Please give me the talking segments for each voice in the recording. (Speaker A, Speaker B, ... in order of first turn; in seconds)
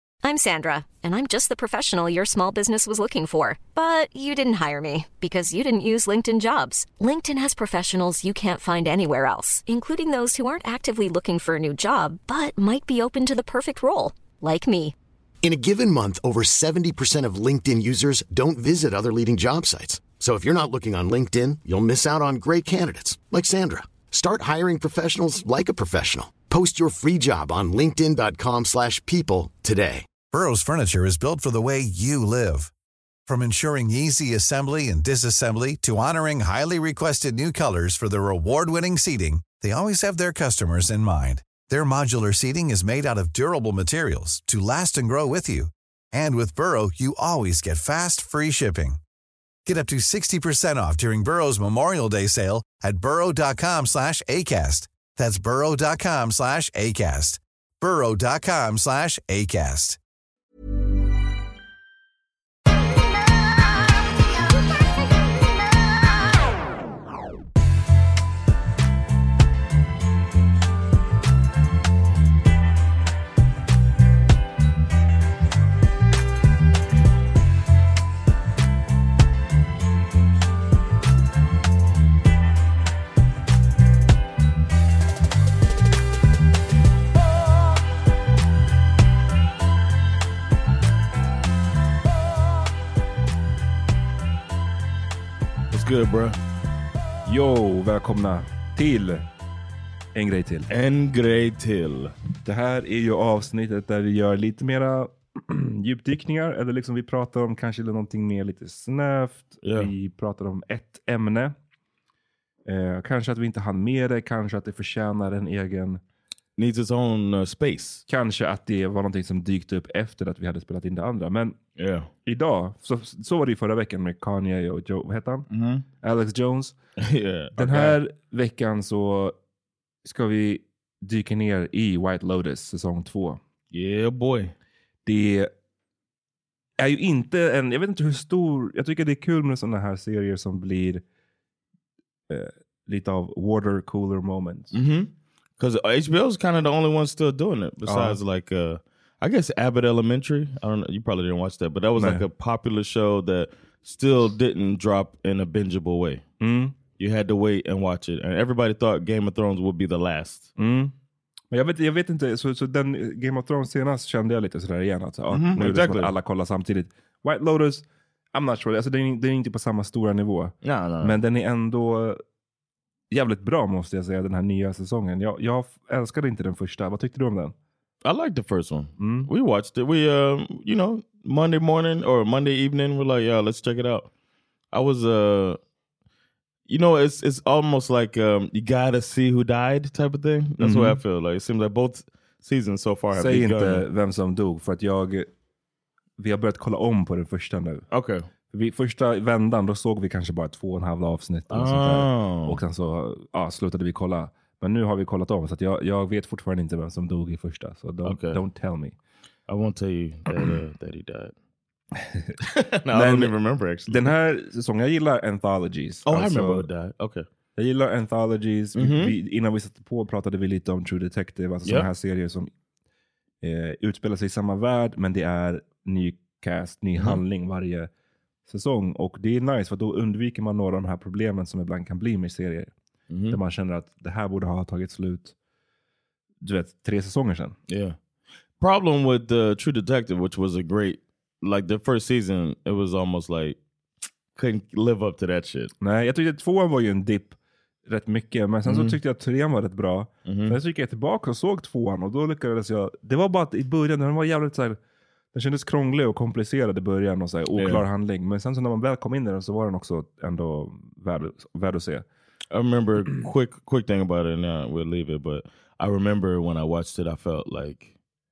Speaker A: 0.2-14.9
Speaker B: 15.4-30.1
Speaker C: 30.3-32.7, 33.3-49.0, 49.6-60.0
Speaker D: 95.7-96.4, 100.7-102.1, 109.6-109.9, 116.6-118.0, 121.8-122.1, 125.5-125.8, 127.0-128.0, 133.7-134.5, 144.7-156.2, 157.0-160.5, 165.3-166.1, 170.6-171.2, 178.0-184.1, 184.7-185.6, 186.7-193.9, 197.9-198.3, 201.5-202.6, 208.0-208.4, 209.5-211.3, 212.4-214.1, 216.1-217.3, 218.8-219.2, 233.1-233.4, 237.7-238.0, 238.6-243.6, 244.3-245.7, 248.7-249.0, 250.3-250.6, 257.6-257.9, 262.5-267.9
Speaker E: 97.3-99.3, 100.2-100.7, 102.4-111.5, 112.7-116.0, 118.1-121.6, 122.2-125.5, 126.0-126.8, 127.6-129.3, 130.1-133.4, 135.1-135.5, 136.8-141.0, 142.3-144.7, 147.9-148.2, 152.0-152.2, 156.4-156.8, 160.6-160.9, 161.5-172.2, 173.1-177.6, 179.0-179.3, 190.6-191.0, 193.1-195.3, 196.2-197.9, 198.5-208.9, 210.3-210.6, 212.0-212.3, 212.9-213.3, 213.9-216.7, 217.6-222.5, 223.4-227.9, 228.5-232.7, 233.3-235.3, 236.4-237.6, 245.8-247.4, 247.9-254.8, 255.3-262.1